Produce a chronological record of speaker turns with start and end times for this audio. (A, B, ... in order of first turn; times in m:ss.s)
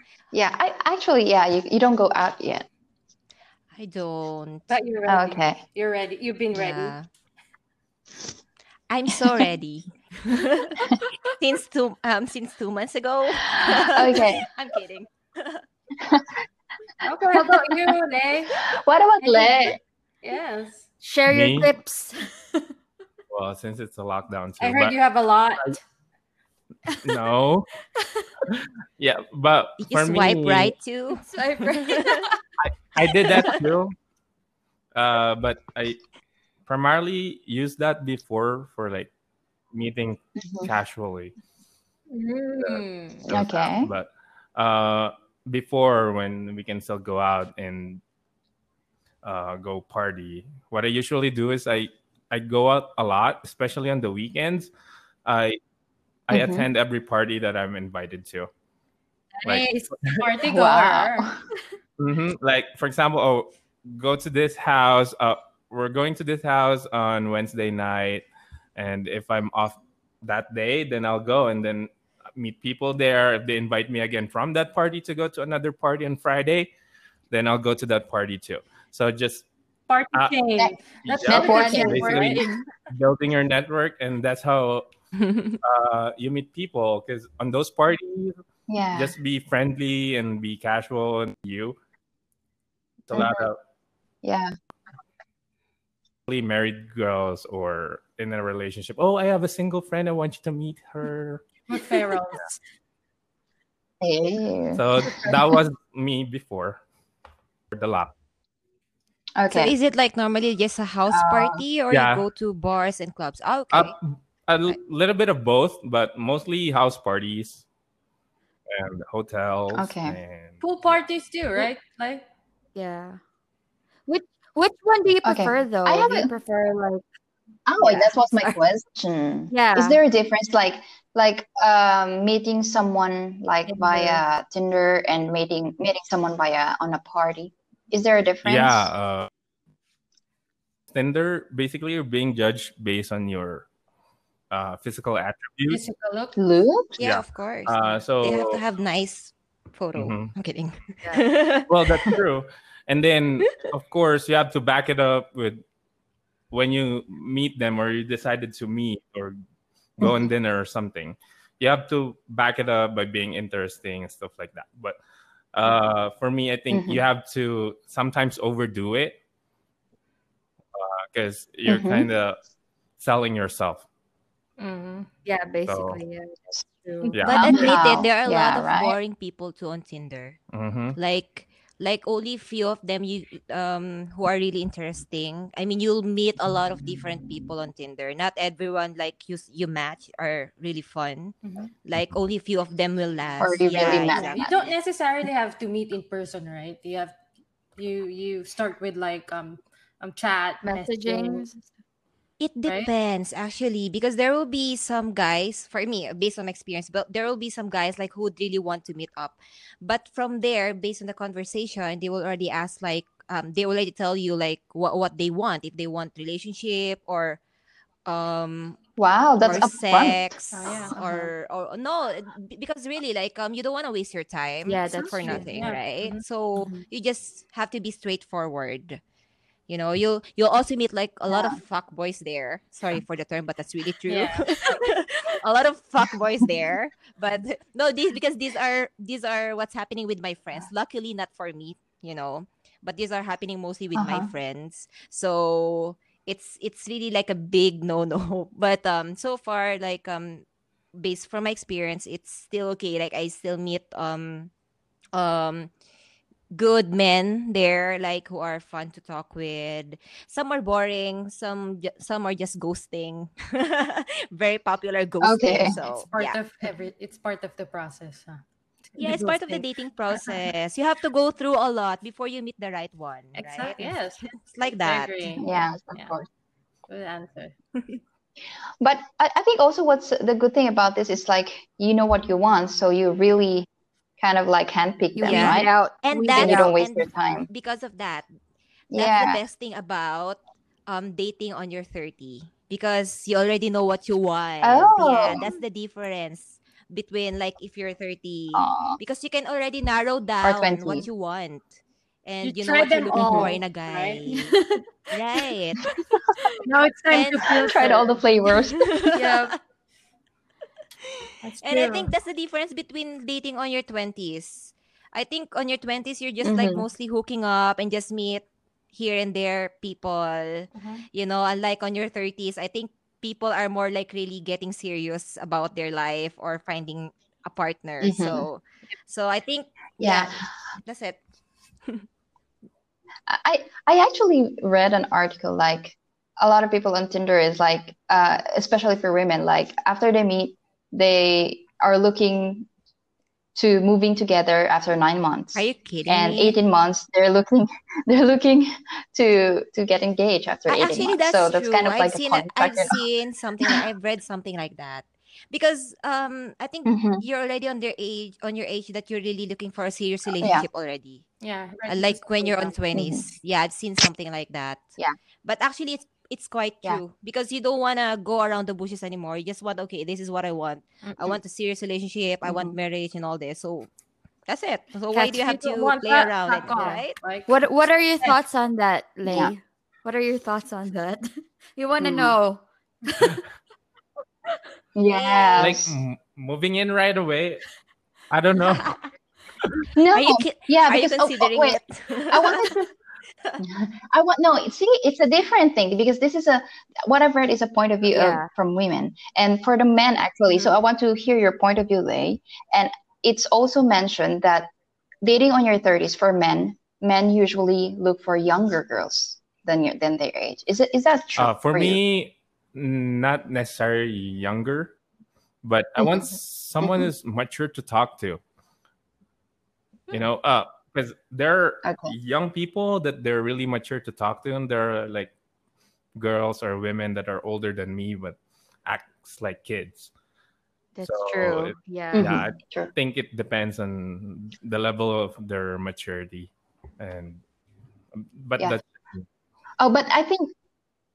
0:00.3-0:02.6 A
0:03.7-0:04.7 B
0:04.7-0:07.0 C
0:05.1-0:05.6 A
0:06.5-0:07.1 B
0:08.9-0:15.6 B
0:13.6-0:14.4 A
0:16.0-0:16.3 A
0:17.0-0:18.6 C
0:18.6-0:19.8 A
0:19.2-0:20.8 C
0:21.0-0:22.7 D
0:21.3-0:21.7 E
0:23.3-0:25.0 E
0:24.6-0:25.8 C
0:27.0-0:27.7 E
0:28.4-0:30.7 E
0:29.8-0:32.3 B
0:31.1-0:32.4 D
0:32.6-0:33.9 E
0:33.3-0:33.5 D
0:34.9-0:36.0 E
0:36.6-0:39.1 E
0:39.7-0:41.3 E
0:40.4-0:40.7 A
0:42.1-0:43.2 C
0:42.6-0:48.0 E
0:43.3-0:43.9 A
0:49.2-0:54.7 E
0:55.2-0:55.6 E
0:56.3-0:58.5 E
0:56.3-0:56.6 A
0:59.4-1:00.2 E
0:59.4-1:01.3 C
1:00.4-1:01.4 A
1:02.0-1:16.7 E
1:17.3-1:19.4 E
1:19.9-1:22.6 C
1:20.1-1:20.4 E
1:20.6-1:22.6 A
1:21.0-1:24.8 E
1:25.2-1:25.6 B
1:25.6-1:28.4 E
1:28.7-1:29.1 A
1:28.9-1:31.8 E
1:33.0-1:33.6 E
1:33.1-1:33.4 A
1:34.2-1:34.5 A
1:36.3-1:41.4 E
1:41.7-1:42.6 C
1:44.0-1:45.5 A
1:44.7-1:46.8 E
1:47.7-1:48.1 E
1:49.4-1:49.7 A
1:49.5-1:53.9 B
1:51.1-1:51.6 A
1:51.9-1:52.2 E
1:53.7-1:57.6 E
1:58.7-2:01.0 E
1:59.7-2:00.2 A
2:00.6-2:02.2 C
2:02.8-2:03.2 D
2:04.1-2:07.0 D
2:05.2-2:06.3 A
2:07.7-2:18.9 A
2:07.8-2:08.5 D
2:09.5-2:10.0 D
2:13.7-2:14.2 D
2:18.4-2:19.3 E
2:20.9-2:23.7 E
2:24.5-2:25.8 E
2:25.7-2:26.4 C
2:26.4-2:27.0 A
2:27.0-2:28.6 E
2:27.0-2:32.2 B
2:29.9-2:30.3 E
2:31.7-2:35.6 E
2:36.5-2:39.4 E
2:40.0-2:45.0 E
2:45.5-2:49.2 E
2:46.7-2:47.0 A
2:50.7-2:52.4 E
2:51.7-2:52.1 A
2:53.0-2:53.8 E
2:54.6-2:55.1 C
2:55.2-2:57.7 D
2:55.6-2:56.0 E
2:57.1-2:57.6 E
2:57.2-3:00.4 B
2:57.4-2:59.0 A
3:00.5-3:01.0 E
3:00.9-3:14.7 B
3:11.4-3:11.7 C
3:13.4-3:14.5 A
3:13.9-3:17.2 C
3:17.8-3:21.4 C
3:20.6-3:21.7 D
3:22.4-3:37.4 B
3:38.0-3:38.8 B
3:39.0-3:40.3 A
3:39.4-3:49.0 B
3:40.5-3:41.0 C
3:44.6-3:45.5 D
3:45.2-3:46.2 C
3:46.6-3:46.8 D
3:49.7-4:10.4 B
3:51.3-3:51.6 A
3:54.1-3:54.6 C
4:03.9-4:04.3 A
4:11.0-4:14.5 B
4:15.1-4:15.7 B
4:16.5-4:26.4 B
4:25.2-4:25.7 A
4:25.6-4:28.4 C
4:28.9-4:30.4 C
4:29.0-4:35.4 B
4:33.4-4:36.1 C
4:35.4-4:36.3 A
4:36.9-4:37.5 C
4:38.8-4:43.7 A
4:44.2-4:45.7 A
4:45.2-4:46.7 D
4:45.2-4:48.2 B
4:46.3-4:47.5 A
4:48.9-4:49.4 A
4:48.9-5:05.9 B
4:54.6-4:55.5 A
4:58.5-4:59.0 A
5:00.4-5:01.1 A
5:02.4-5:04.2 C
5:03.2-5:03.5 A
5:04.3-5:04.8 D
5:06.6-5:08.2 C
5:07.1-5:07.8 B
5:07.6-5:08.9 A
5:08.8-5:09.5 B
5:09.1-5:09.5 D
5:11.0-5:31.2 B
5:11.4-5:12.1 C
5:16.4-5:16.8 A
5:20.7-5:21.0 C
5:28.0-5:28.4 A
5:30.0-5:30.4 A
5:33.3-5:42.7 A
5:43.5-5:53.0 A
5:45.5-5:46.6 B
5:50.7-6:01.2 B
5:56.8-5:57.2 A
6:00.4-6:00.6 A
6:01.4-6:02.7 C
6:01.9-6:04.9 B
6:02.9-6:03.2 A
6:05.4-6:13.9 B
6:11.0-6:11.3 C
6:12.4-6:12.8 A
6:14.5-6:17.2 B
6:15.2-6:17.6 C
6:16.5-6:23.4 D
6:19.2-6:19.5 A
6:22.0-6:22.4 A
6:24.9-6:26.0 A
6:25.2-6:25.6 D
6:25.6-6:27.6 E
6:28.3-6:29.0 E
6:29.9-6:32.9 A
6:30.1-6:32.8 B
6:33.6-6:44.7 A
6:38.1-6:38.5 D
6:45.2-6:52.0 A
6:51.4-6:55.0 E
6:55.6-6:58.4 E
6:56.8-6:57.1 A
7:00.1-7:05.3 E
7:01.8-7:02.1 A
7:06.2-7:10.1 E
7:11.0-7:12.4 D
7:11.0-7:17.4 E
7:12.1-7:12.9 A
7:18.1-7:19.2 E
7:19.8-7:20.5 A